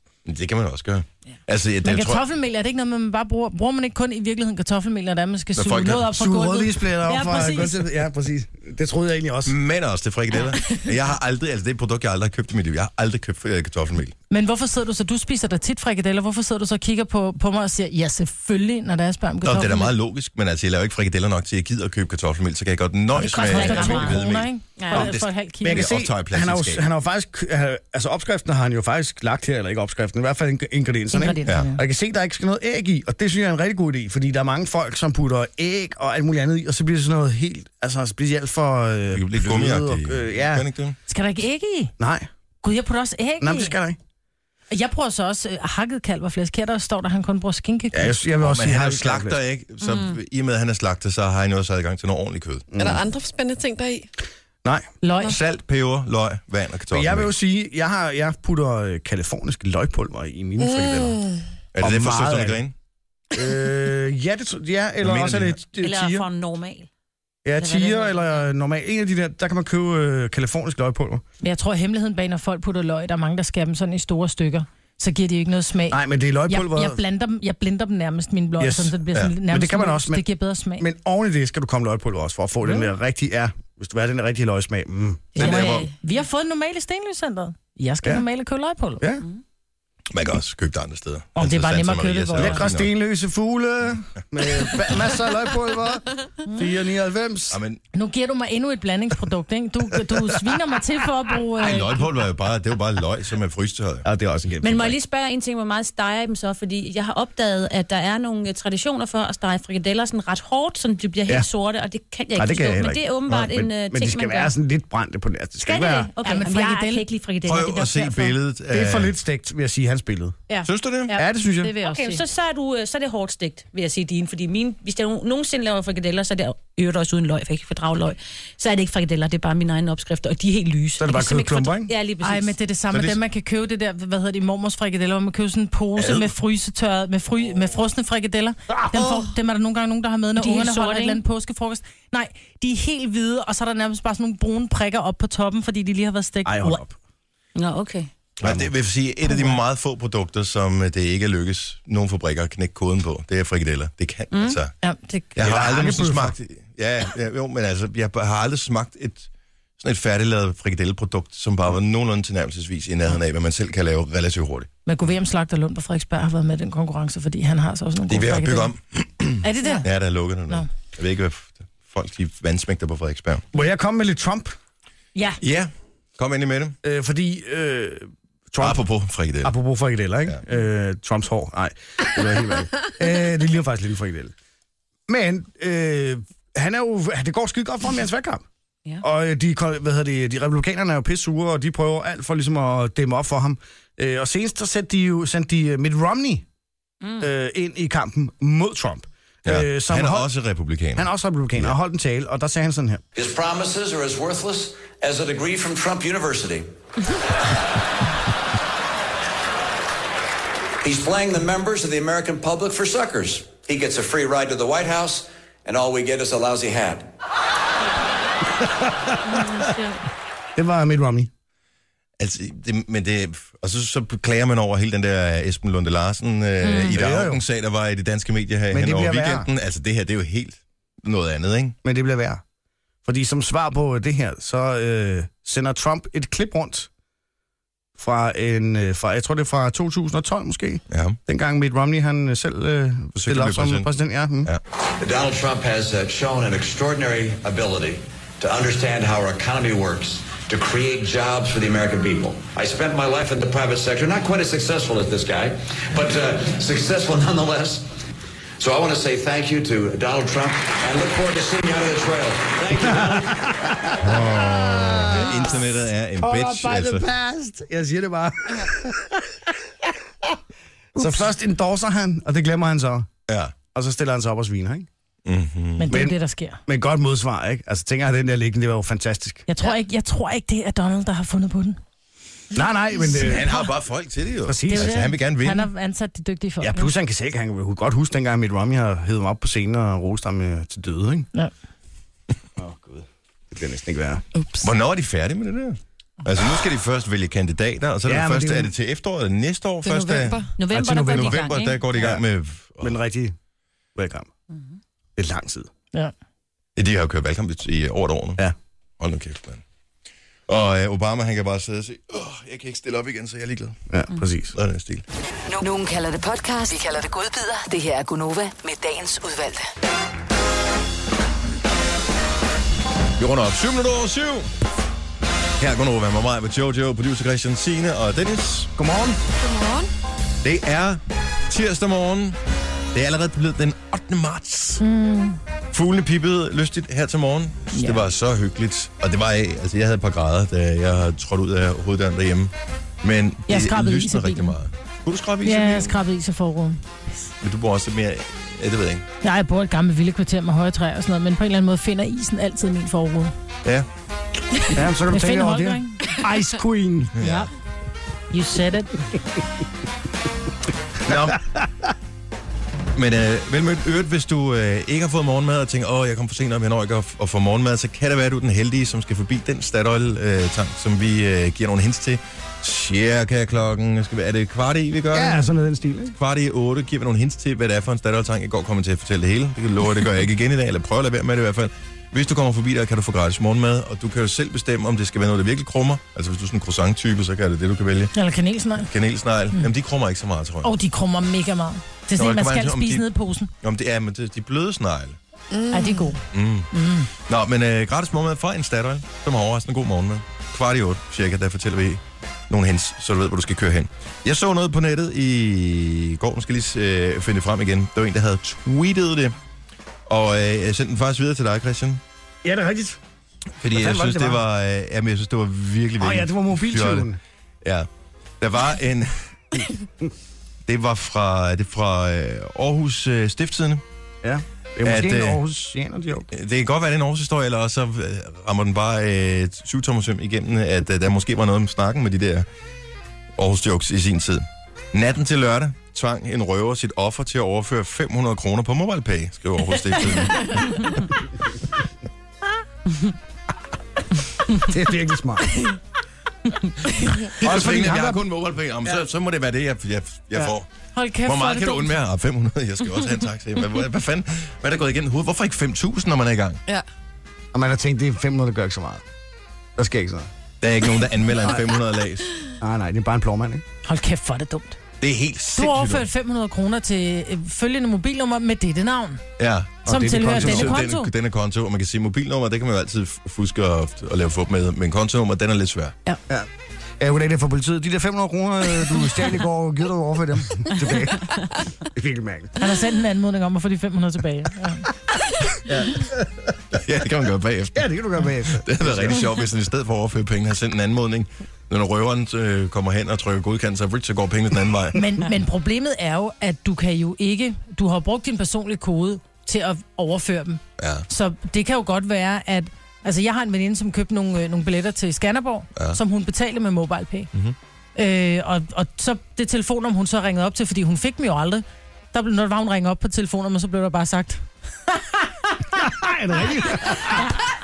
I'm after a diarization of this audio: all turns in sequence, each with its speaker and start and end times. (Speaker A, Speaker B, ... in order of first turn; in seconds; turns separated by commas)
Speaker A: 0.2-2.2, Speaker B: 1.8-7.8, Speaker A: 5.6-6.1, Speaker C: 6.1-9.6, Speaker A: 9.5-14.2, Speaker B: 14.3-19.9, Speaker A: 19.4-26.9, Speaker B: 23.2-25.9, Speaker D: 23.3-25.1, Speaker C: 25.6-40.7, Speaker B: 31.1-31.8, Speaker A: 31.4-31.7, Speaker A: 39.1-41.0, Speaker B: 41.1-41.9, Speaker C: 42.0-42.3, Speaker B: 42.6-43.8, Speaker C: 43.4-44.0, Speaker B: 44.7-48.1, Speaker C: 47.9-49.4, Speaker A: 48.4-52.7, Speaker D: 49.8-50.1, Speaker C: 52.7-53.0, Speaker E: 52.8-54.1, Speaker B: 55.0-55.4, Speaker A: 55.2-57.3, Speaker C: 56.9-61.2, Speaker E: 60.6-61.4, Speaker A: 61.7-62.7, Speaker C: 61.8-62.6, Speaker C: 63.3-66.3, Speaker A: 65.0-65.6, Speaker D: 65.8-66.9, Speaker C: 67.5-71.2, Speaker D: 67.6-68.5, Speaker B: 71.4-80.8, Speaker C: 75.9-77.0, Speaker C: 78.6-80.2, Speaker C: 80.8-85.4, Speaker D: 85.3-85.9, Speaker A: 85.4-85.9, Speaker B: 85.4-89.0, Speaker A: 90.1-92.9, Speaker B: 91.4-92.6, Speaker C: 92.4-97.6, Speaker A: 97.5-97.8, Speaker B: 97.9-102.1, Speaker A: 101.6-104.1, Speaker C: 104.0-105.0, Speaker D: 104.6-114.5, Speaker C: 112.4-116.1, Speaker D: 115.6-118.4, Speaker B: 116.2-117.0, Speaker A: 117.5-119.1, Speaker C: 118.7-120.4, Speaker B: 120.5-122.2, Speaker A: 120.6-121.2, Speaker C: 121.1-121.8, Speaker D: 121.8-132.6, Speaker C: 131.0-131.9, Speaker B: 132.2-146.8, Speaker A: 132.9-133.2, Speaker A: 136.0-136.3, Speaker D: 140.4-141.2, Speaker C: 146.4-146.9, Speaker D: 147.6-148.1, Speaker A: 148.4-154.7, Speaker C: 148.4-148.7, Speaker B: 149.3-149.6, Speaker D: 154.3-154.6, Speaker B: 154.8-155.7, Speaker C: 155.4-156.3, Speaker A: 155.4-159.3, Speaker A: 159.8-164.7, Speaker B: 164.9-168.7, Speaker A: 168.1-173.4, Speaker B: 169.4-169.9, Speaker C: 173.5-174.5, Speaker A: 175.4-176.8, Speaker C: 176.8-178.8, Speaker A: 178.6-179.6, Speaker C: 179.4-184.3, Speaker C: 185.1-188.4, Speaker C: 189.0-196.4, Speaker C: 197.2-200.3, Speaker A: 199.4-201.7, Speaker C: 201.0-203.0, Speaker F: 203.2-206.7, Speaker F: 210.8-217.1, Speaker C: 218.6-219.5, Speaker C: 220.6-221.3, Speaker A: 222.2-231.8, Speaker C: 226.8-227.4, Speaker C: 228.7-229.5, Speaker C: 231.8-232.4, Speaker C: 233.1-236.9, Speaker C: 238.0-244.5, Speaker A: 240.9-241.2, Speaker A: 243.2-243.9, Speaker F: 244.9-257.9, Speaker F: 258.6-263.5, Speaker C: 262.7-265.6, Speaker A: 264.0-267.1, Speaker C: 266.2-270.4, Speaker C: 270.9-273.1, Speaker A: 273.3-273.6, Speaker C: 273.7-274.9, Speaker A: 275.3-275.9, Speaker B: 275.8-276.6, Speaker C: 275.9-279.4, Speaker B: 279.5-281.8, Speaker C: 282.5-283.7, Speaker A: 283.1-285.7, Speaker C: 284.4-285.0, Speaker B: 284.7-286.9, Speaker C: 286.6-291.3, Speaker C: 292.6-294.2, Speaker E: 294.4-294.7, Speaker A: 294.6-302.9, Speaker C: 298.1-298.7, Speaker E: 299.8-300.5, Speaker D: 300.6-301.8, Speaker C: 300.8-302.2, Speaker C: 302.8-303.4, Speaker C: 303.9-304.3, Speaker C: 305.2-305.7, Speaker A: 306.8-308.4, Speaker A: 309.0-309.6, Speaker A: 310.5-313.8, Speaker C: 313.9-314.6, Speaker A: 314.5-315.0, Speaker G: 315.5-319.7, Speaker A: 323.2-324.5, Speaker A: 325.6-328.7, Speaker C: 328.8-329.2, Speaker E: 329.4-329.9, Speaker A: 330.4-332.4, Speaker A: 332.9-334.8, Speaker B: 334.8-335.4, Speaker A: 335.7-346.0, Speaker B: 337.7-338.1, Speaker B: 343.5-344.6, Speaker B: 345.4-347.0, Speaker A: 347.4-349.1, Speaker B: 349.2-353.3, Speaker C: 354.7-357.1, Speaker B: 355.1-356.2, Speaker A: 357.2-357.5, Speaker B: 357.2-357.5, Speaker B: 358.3-359.1, Speaker A: 361.0-361.4, Speaker A: 363.0-375.5, Speaker C: 375.1-376.2, Speaker A: 376.2-388.1, Speaker B: 388.1-388.9, Speaker A: 388.9-390.7, Speaker B: 390.6-393.5, Speaker A: 392.2-393.1, Speaker A: 393.6-395.2, Speaker E: 395.5-396.1, Speaker B: 395.7-396.2, Speaker A: 396.3-409.4, Speaker B: 396.7-397.1, Speaker A: 410.1-412.0, Speaker C: 412.4-413.0, Speaker A: 413.6-417.1, Speaker C: 413.7-414.4, Speaker C: 416.0-417.2, Speaker A: 417.6-417.9, Speaker A: 418.4-419.7, Speaker A: 420.7-423.8, Speaker C: 424.2-426.3, Speaker A: 424.8-425.4, Speaker A: 426.3-432.5, Speaker A: 433.4-440.9, Speaker C: 444.6-445.5, Speaker A: 447.0-450.7, Speaker C: 447.4-448.2, Speaker B: 450.9-451.9, Speaker A: 451.2-456.6, Speaker C: 457.5-459.0, Speaker C: 459.8-460.3, Speaker A: 460.6-462.3, Speaker C: 462.6-463.6, Speaker B: 463.9-464.8, Speaker A: 465.0-466.1, Speaker B: 465.5-469.2, Speaker A: 469.4-475.9, Speaker C: 469.9-470.8, Speaker B: 469.9-471.1, Speaker C: 477.0-482.6, Speaker B: 482.6-484.9, Speaker A: 485.7-486.1, Speaker A: 486.7-495.0, Speaker C: 487.8-489.3, Speaker B: 494.9-507.3, Speaker A: 500.8-501.1, Speaker B: 508.0-515.8, Speaker C: 515.8-517.4